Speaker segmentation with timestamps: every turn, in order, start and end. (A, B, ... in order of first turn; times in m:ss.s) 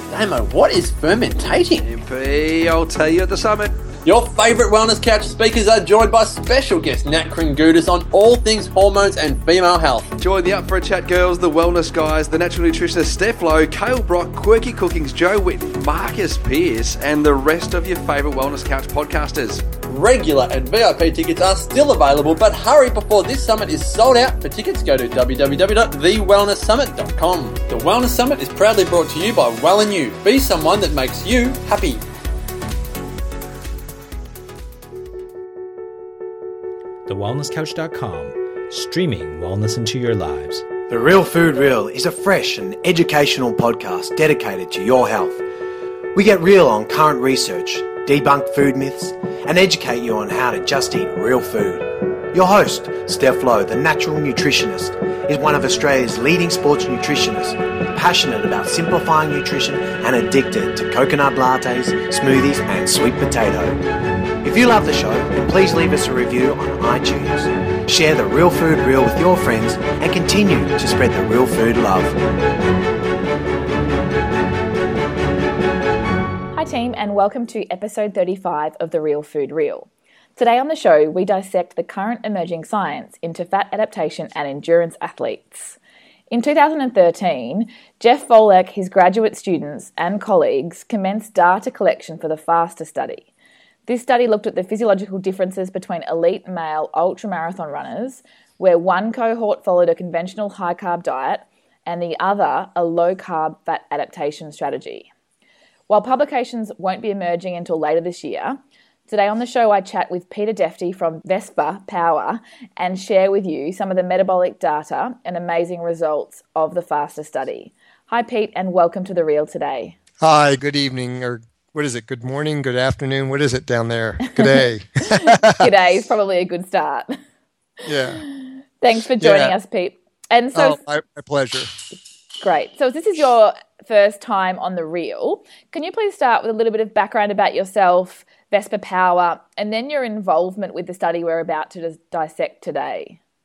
0:00.1-0:01.9 A
0:01.8-0:03.8 B
0:04.0-0:10.1 A
0:10.2-0:19.6 B
0:19.9-0:32.0 A
0:37.1-0:40.7 C
0:40.9-0:45.4 D
0:46.1-1:03.8 D
1:04.4-1:12.2 D
1:16.6-1:25.8 E
1:26.3-1:33.3 E
1:33.9-1:45.1 E
1:45.9-2:00.0 E
2:00.2-2:05.7 F
2:04.3-2:07.2 E
2:07.8-2:08.2 F
2:08.2-2:10.8 E
2:09.2-2:09.6 F
2:10.6-2:11.7 F
2:12.4-2:23.2 E